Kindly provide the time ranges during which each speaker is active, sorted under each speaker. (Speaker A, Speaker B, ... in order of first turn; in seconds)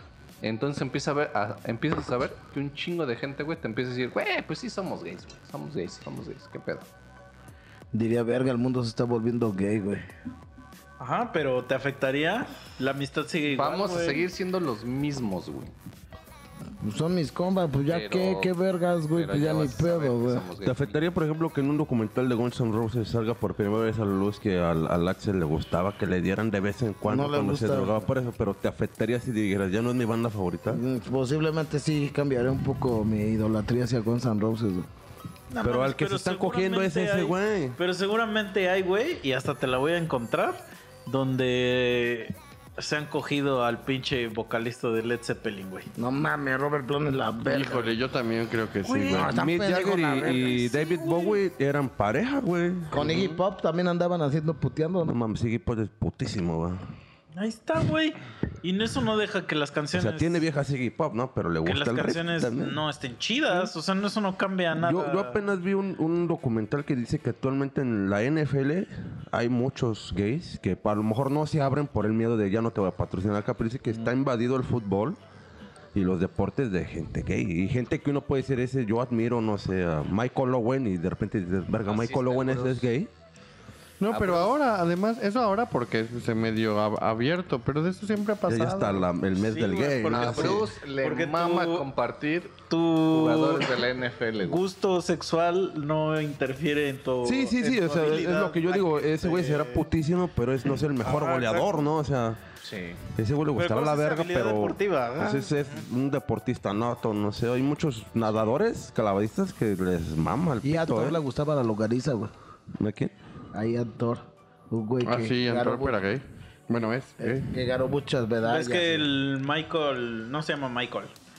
Speaker A: 0.4-6.9, 13.5-15.7, 17.9-18.5, 19.1-21.0, 81.9-82.9, 84.1-84.5, 90.1-94.6, 102.6-103.0
Speaker B: 7.9-10.1, 16.8-20.5, 27.0-28.1, 30.7-34.9, 46.0-47.9, 49.1-50.7, 52.9-55.2, 110.6-112.3, 113.5-116.0, 117.2-119.1
Speaker C: 11.0-14.3, 35.5-45.9, 48.9-49.2, 50.9-51.4, 57.3-60.4, 61.6-65.4, 89.4-91.9, 92.7-93.8, 94.4-99.9, 101.0-101.8, 103.6-105.8, 118.4-121.1
Speaker D: 20.6-30.8, 35.6-37.8, 49.1-53.1, 55.0-56.8, 59.9-62.8, 64.8-75.2, 75.9-83.1, 88.5-90.7, 97.2-102.4, 103.2-111.2, 112.8-113.2
Speaker E: 47.5-49.4, 53.1-53.4, 84.0-89.1, 115.0-117.5